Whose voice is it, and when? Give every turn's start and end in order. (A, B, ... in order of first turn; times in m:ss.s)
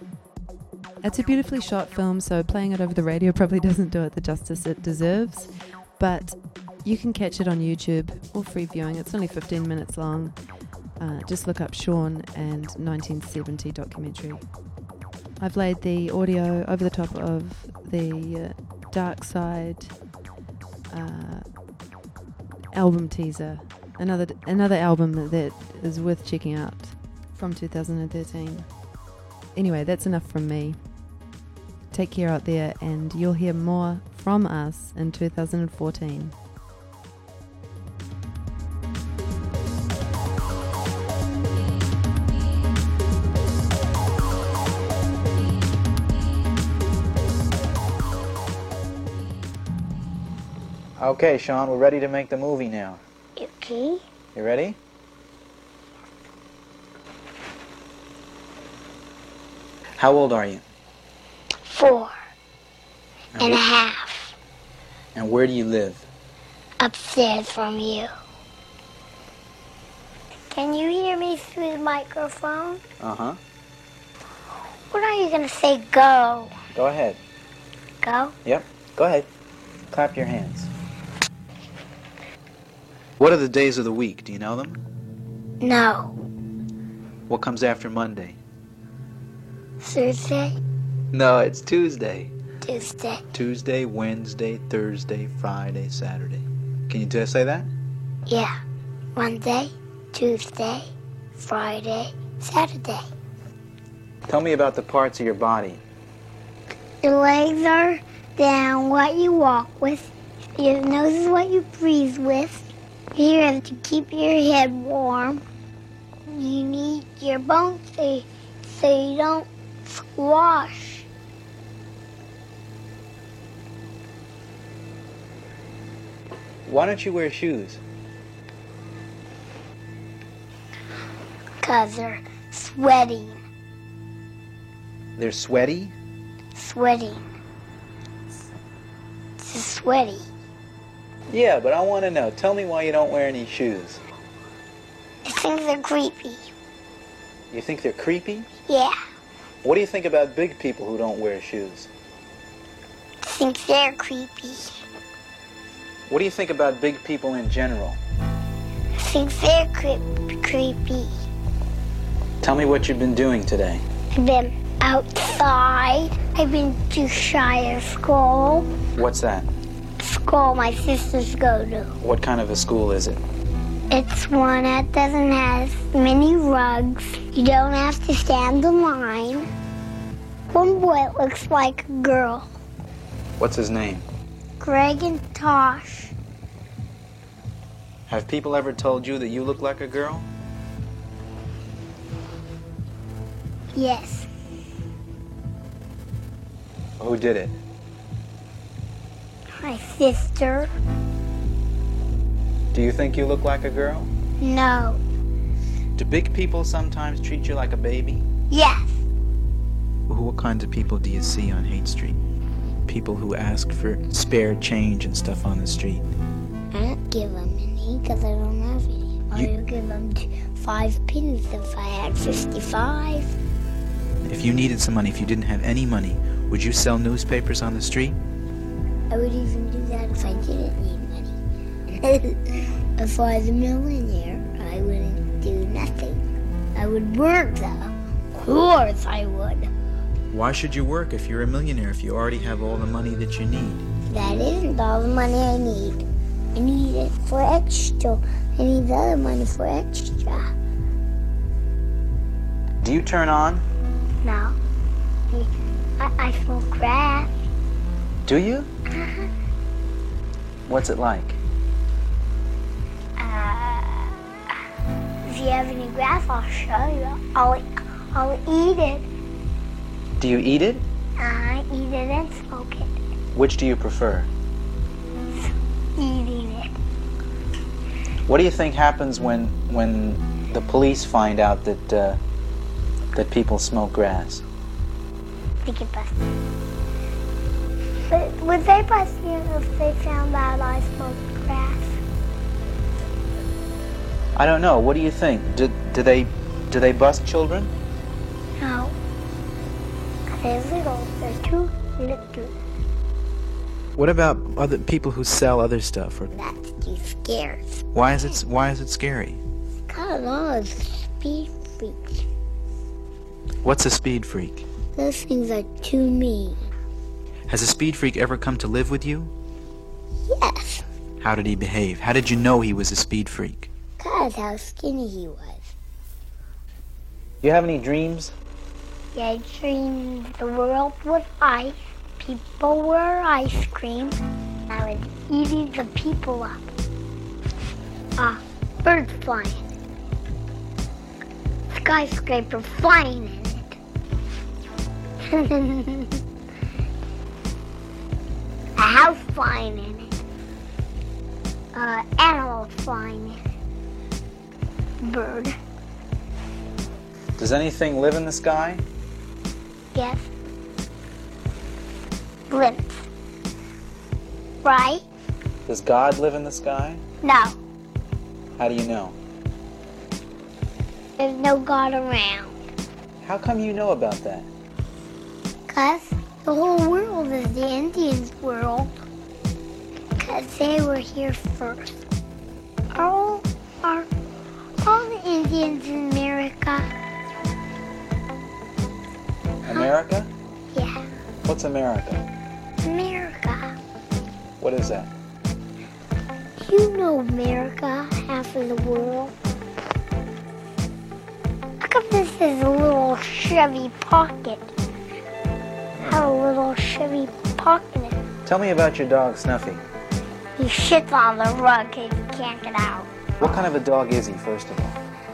0:01.0-0:14.8 A
0:15.4-0:20.1 A
0:20.9-0:21.8 A
0:22.7-0:31.3 A
0:31.9-0:36.4 A
0:51.0-0:53.0 B
0:53.4-0:54.0 C
0:54.4-0:54.8 B
1:00.0-1:00.6 B
1:01.7-1:02.2 C
1:03.4-1:03.6 B
1:03.4-1:04.4 C
1:05.2-1:06.0 B
1:06.8-1:08.1 C
1:10.5-1:12.8 C
1:13.0-1:13.4 B
1:14.9-1:16.5 C
1:16.8-1:17.2 B
1:18.0-1:18.3 C
1:18.4-1:19.3 B
1:19.9-1:20.7 B
1:23.2-1:24.8 B
1:25.6-1:26.1 C
1:27.3-1:28.4 B
1:29.8-1:30.6 C
1:31.1-1:32.3 B
1:32.6-1:33.2 C
1:33.3-1:37.7 B
1:38.3-1:38.6 C
1:39.2-1:43.1 C
1:44.3-1:45.8 B
1:47.0-1:55.4 C
1:56.3-2:01.1 C
2:06.6-2:07.8 B
2:11.6-2:13.4 C
2:15.2-2:15.9 B
2:16.6-2:17.2 C
2:19.4-2:20.2 C
2:21.3-2:24.0 B
2:25.2-2:26.5 C
2:27.5-2:28.5 B
2:28.7-2:29.0 C
2:29.6-2:31.9 B
2:33.2-2:34.8 C
2:36.1-2:38.0 B
2:39.0-2:41.1 C
2:42.4-2:43.8 B
2:44.1-2:48.7 C
2:49.0-2:49.5 B
2:50.0-2:51.9 C
2:52.0-2:53.2 B
2:53.9-2:59.5 C
3:00.5-3:02.5 C
3:03.4-3:04.1 B
3:04.6-3:06.1 C
3:08.1-3:10.3 B
3:13.8-3:14.3 C
3:17.0-3:17.6 B
3:19.6-3:20.7 C
3:22.7-3:24.1 B
3:24.4-3:25.0 C
3:26.0-3:28.2 B
3:28.5-3:29.0 C
3:30.1-3:32.2 B
3:32.9-3:36.0 B
3:36.7-3:43.4 C
3:44.3-3:48.2 B
3:49.1-3:51.4 C
3:52.0-3:56.2 C
3:56.8-3:59.7 C
4:00.3-4:03.8 B
4:04.1-4:06.0 C
4:06.6-4:10.5 C
4:12.8-4:13.6 B
4:14.2-4:14.6 C
4:15.3-4:17.3 C
4:18.2-4:18.7 B
4:18.9-4:19.3 C
4:20.7-4:21.4 B
4:23.2-4:24.2 C
4:25.3-4:29.1 C
4:30.2-4:30.8 B
4:31.2-4:33.0 C
4:33.3-4:34.3 B
4:35.3-4:36.7 C
4:38.3-4:42.2 B
4:43.2-4:44.4 B
4:45.6-4:46.2 C
4:48.0-4:52.0 C
4:54.4-4:57.7 B
4:58.6-4:59.0 C
5:00.3-5:02.5 C
5:04.0-5:06.3 B
5:06.3-5:07.8 C
5:07.9-5:09.4 B
5:09.9-5:12.3 C
5:13.6-5:14.6 B
5:15.0-5:16.6 C
5:17.5-5:19.3 B
5:20.3-5:20.8 C
5:21.2-5:23.7 B
5:24.0-5:25.7 C
5:27.4-5:28.3 B
5:29.1-5:36.6 C
5:38.2-5:39.6 C
5:41.7-5:43.8 C
5:45.2-5:46.1 C
5:48.8-5:50.1 C
5:51.7-5:53.4 C
5:55.0-5:55.6 C
5:57.4-5:58.8 B
5:59.9-6:00.3 C
6:02.5-6:03.1 C
6:04.6-6:05.0 C
6:05.7-6:07.0 B
6:07.2-6:07.6 C
6:08.6-6:09.2 B
6:11.2-6:12.6 C
6:13.2-6:14.5 B
6:15.7-6:19.0 C
6:20.2-6:22.0 C
6:22.9-6:24.1 C
6:24.8-6:26.9 C
6:29.7-6:30.3 B
6:30.7-6:31.0 C
6:31.4-6:32.2 B
6:32.8-6:33.8 C
6:34.6-6:35.1 B
6:36.6-6:39.3 C
6:41.8-6:44.8 C
6:46.0-6:48.2 C
6:48.4-6:49.8 B
6:50.6-6:53.1 C
6:53.4-6:55.0 B